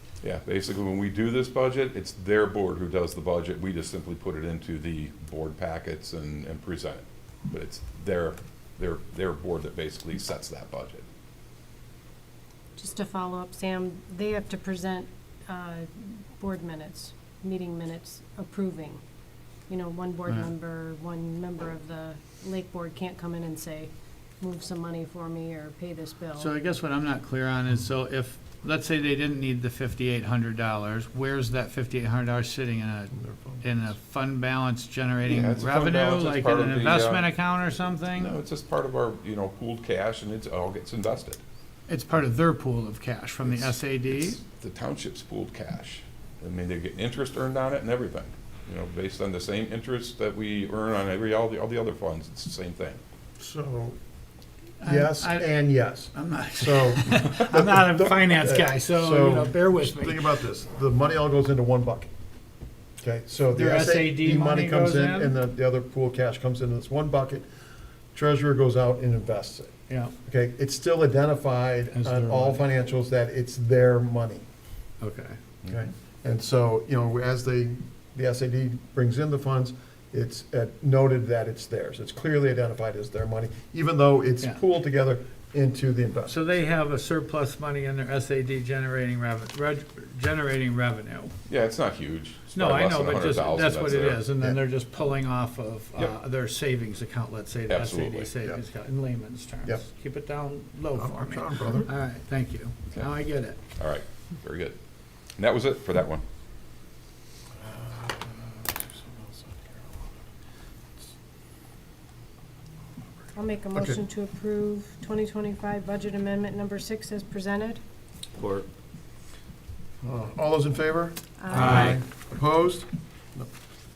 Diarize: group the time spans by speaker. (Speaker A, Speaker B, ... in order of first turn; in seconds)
Speaker A: 0.2-11.1, 35.2-37.3, 38.1-41.4, 43.4-53.0, 91.5-94.2, 97.7-98.3, 103.8-104.8, 105.4-106.2, 118.4-118.6, 121.6-122.0
Speaker B: 12.8-19.0, 19.7-26.5, 113.3-117.8, 121.4-122.0
Speaker C: 26.4-38.3, 41.9-44.4, 54.8-55.5, 56.1-60.3, 63.5-65.3, 71.9-72.6, 75.0-75.4, 86.3-91.3, 92.5-103.6, 121.5-122.0
Speaker D: 33.1-33.7, 53.4-54.0, 54.8-62.1, 63.0-67.4, 68.1-69.7, 70.2-74.5, 75.7-86.4, 100.9-101.9, 107.6-110.1, 113.7-114.0, 120.0-123.5